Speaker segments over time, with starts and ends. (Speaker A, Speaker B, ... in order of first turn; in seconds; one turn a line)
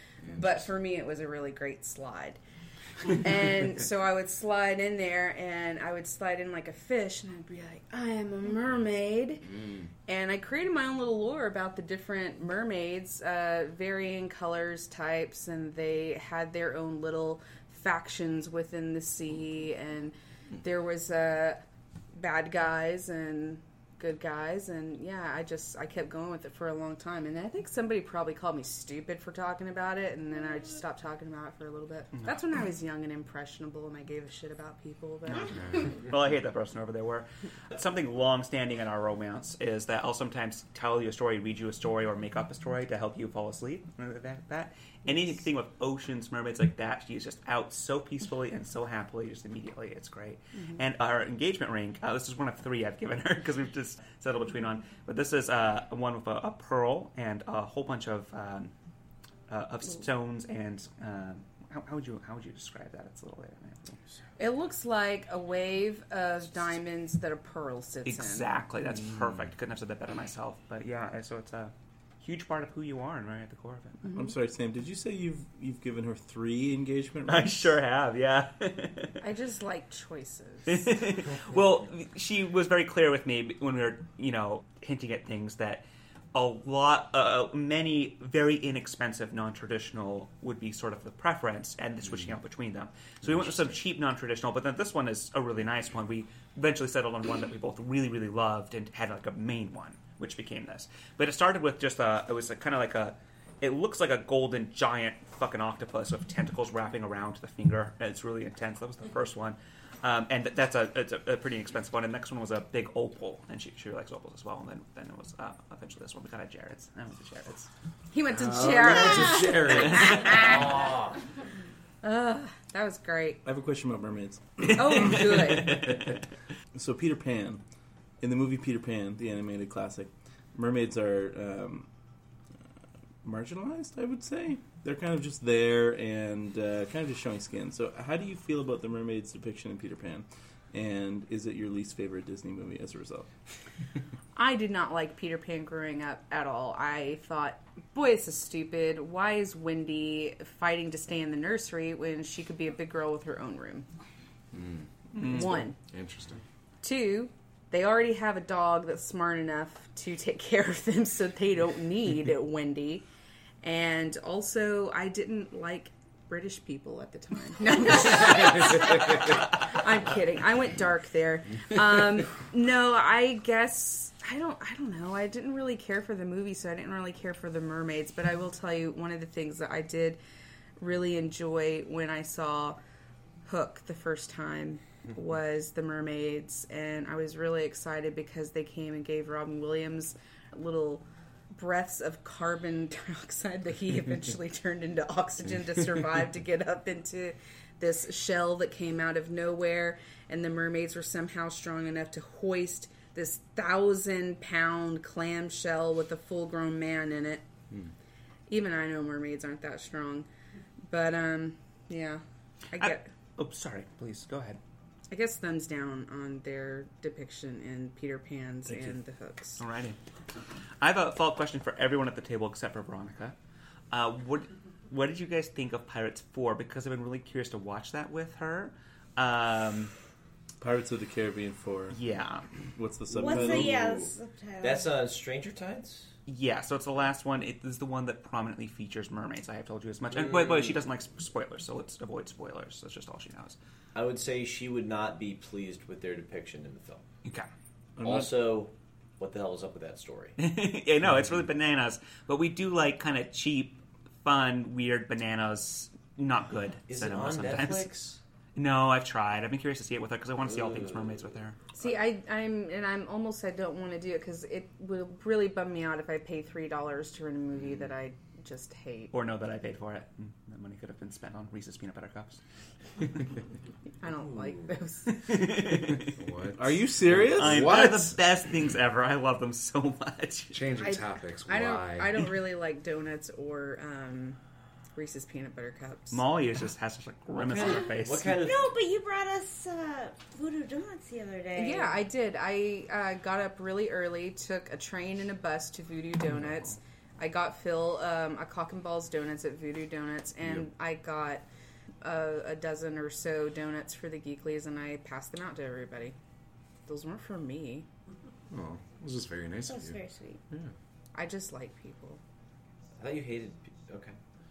Speaker A: 0.3-2.4
Speaker A: 3.0-9.5
Speaker B: 9.5-9.9
Speaker A: 10.1-21.6
Speaker A: 22.1-36.0
Speaker C: 35.3-58.7
Speaker B: 35.5-35.9
Speaker C: 59.5-64.0
Speaker A: 64.4-68.5
Speaker C: 68.1-74.1
Speaker D: 74.1-77.8
Speaker C: 77.3-79.2
Speaker A: 79.2-81.0
Speaker C: 80.7-117.7
Speaker A: 118.1-120.9
Speaker B: 118.3-120.8
Speaker E: 120.4-121.2
Speaker A: 122.0-123.4
Speaker D: 123.5-125.4
Speaker A: 124.8-126.0
Speaker D: 126.8-127.6
Speaker D: 128.2-131.9
Speaker D: 133.2-143.3
Speaker A: 144.3-153.9
Speaker B: 154.5-156.4
Speaker A: 155.2-155.8
Speaker C: 155.2-155.5
Speaker A: 156.8-163.1
Speaker A: 163.6-180.2
Speaker A: 180.8-182.8
Speaker A: 183.4-207.5
Speaker A: 208.5-210.3
Speaker A: 210.9-213.1
Speaker C: 212.8-214.6
Speaker A: 215.1-219.6
Speaker D: 218.7-218.9
Speaker C: 219.6-220.0
Speaker C: 220.8-223.3
Speaker C: 223.9-229.9
Speaker D: 230.6-232.0
Speaker C: 231.9-232.5
Speaker D: 232.8-234.1
Speaker F: 233.1-234.9
Speaker E: 233.1-234.0
Speaker E: 234.6-236.1
Speaker C: 236.3-243.6
Speaker E: 240.1-240.8
Speaker E: 243.9-247.1
Speaker D: 248.0-248.3
Speaker E: 248.0-250.4
Speaker C: 250.4-257.9
Speaker E: 256.9-258.2
Speaker C: 258.6-261.6
Speaker A: 261.8-269.1
Speaker C: 269.1-272.4
Speaker A: 274.0-275.2
Speaker C: 275.1-276.1
Speaker B: 276.1-278.2
Speaker D: 276.5-277.8
Speaker C: 277.4-280.6
Speaker B: 280.5-282.3
Speaker A: 280.8-284.4
Speaker A: 284.9-286.2
Speaker C: 286.1-288.4
Speaker E: 287.3-288.7
Speaker F: 288.4-292.1
Speaker A: 291.6-301.5
Speaker A: 302.0-306.1
Speaker A: 306.9-307.9
Speaker B: 308.5-310.0
Speaker F: 309.7-310.4
Speaker A: 311.1-312.2
Speaker E: 313.0-314.2